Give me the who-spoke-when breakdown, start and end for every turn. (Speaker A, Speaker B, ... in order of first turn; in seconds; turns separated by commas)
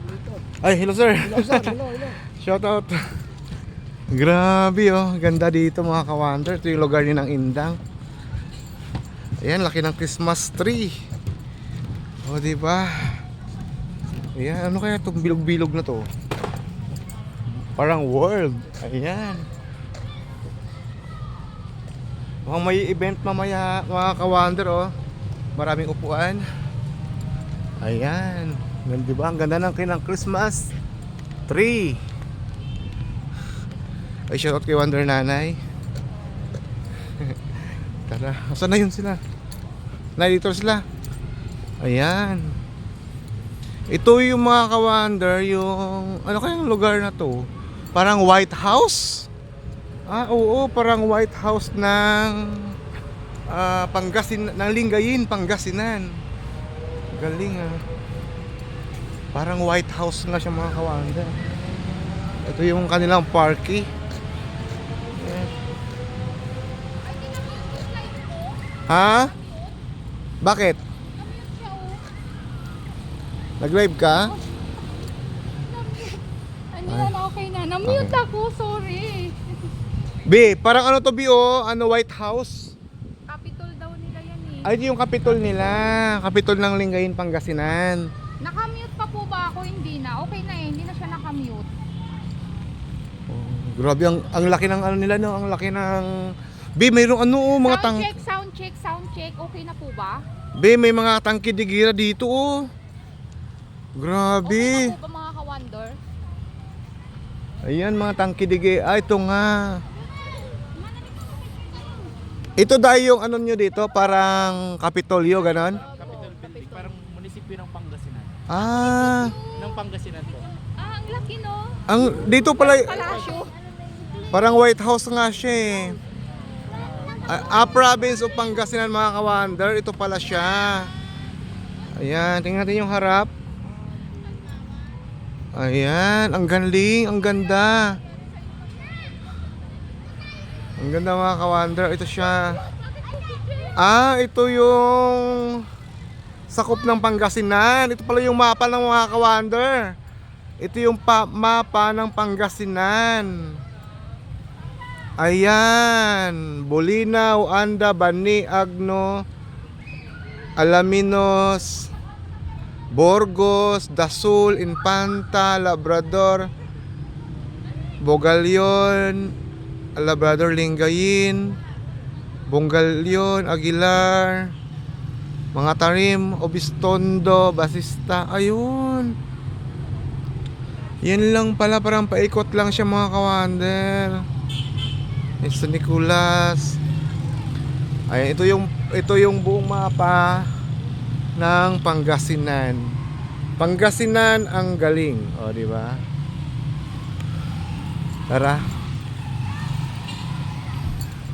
Speaker A: 0.6-3.1, Speaker A: 4.1-7.8, Speaker A: 9.4-11.0, Speaker A: 12.2-13.2, Speaker A: 14.3-16.1, Speaker A: 17.8-19.5, Speaker A: 22.5-24.9, Speaker A: 25.6-26.4, Speaker A: 27.8-30.7, Speaker A: 31.5-32.0, Speaker A: 34.3-35.6, Speaker A: 38.1-39.2, Speaker A: 40.2-40.8, Speaker A: 41.8-42.5, Speaker A: 43.9-49.3, Speaker A: 50.1-52.8, Speaker A: 53.5-56.2, Speaker A: 57.1-57.8, Speaker A: 59.3-61.4, Speaker A: 62.4-63.9, Speaker A: 65.1-65.5, Speaker B: 67.0-69.8, Speaker A: 68.9-69.3, Speaker A: 70.4-70.8, Speaker B: 71.1-72.1, Speaker A: 73.6-74.3, Speaker B: 74.1-74.4, Speaker B: 75.6-79.6, Speaker A: 76.9-77.2, Speaker A: 77.8-78.2, Speaker A: 80.2-82.8, Speaker B: 83.3-84.7, Speaker A: 84.6-88.1, Speaker B: 88.4-91.7, Speaker A: 93.3-98.2, Speaker B: 97.6-100.3, Speaker A: 100.6-102.7, Speaker A: 104.0-105.0, Speaker B: 104.4-106.0, Speaker A: 107.7-109.8, Speaker A: 112.6-115.8, Speaker C: 116.0-118.4, Speaker A: 118.5-119.4, Speaker B: 118.6-119.8, Speaker C: 119.6-120.5, Speaker B: 120.8-123.5, Speaker A: 121.9-123.2, Speaker A: 124.3-126.0, Speaker A: 127.3-130.9, Speaker A: 132.0-133.3, Speaker A: 135.5-138.0, Speaker A: 140.8-142.6, Speaker A: 143.8-145.6, Speaker A: 146.5-150.0, Speaker A: 150.6-153.6, Speaker A: 155.2-159.2, Speaker A: 160.6-161.9, Speaker A: 162.9-166.5, Speaker A: 168.0-169.3, Speaker A: 170.0-171.6, Speaker A: 172.5-174.5, Speaker A: 175.5-179.1, Speaker A: 181.0-184.3, Speaker A: 185.4-186.8, Speaker A: 188.1-190.5, Speaker A: 191.4-193.0, Speaker A: 193.6-196.0, Speaker A: 198.3-198.6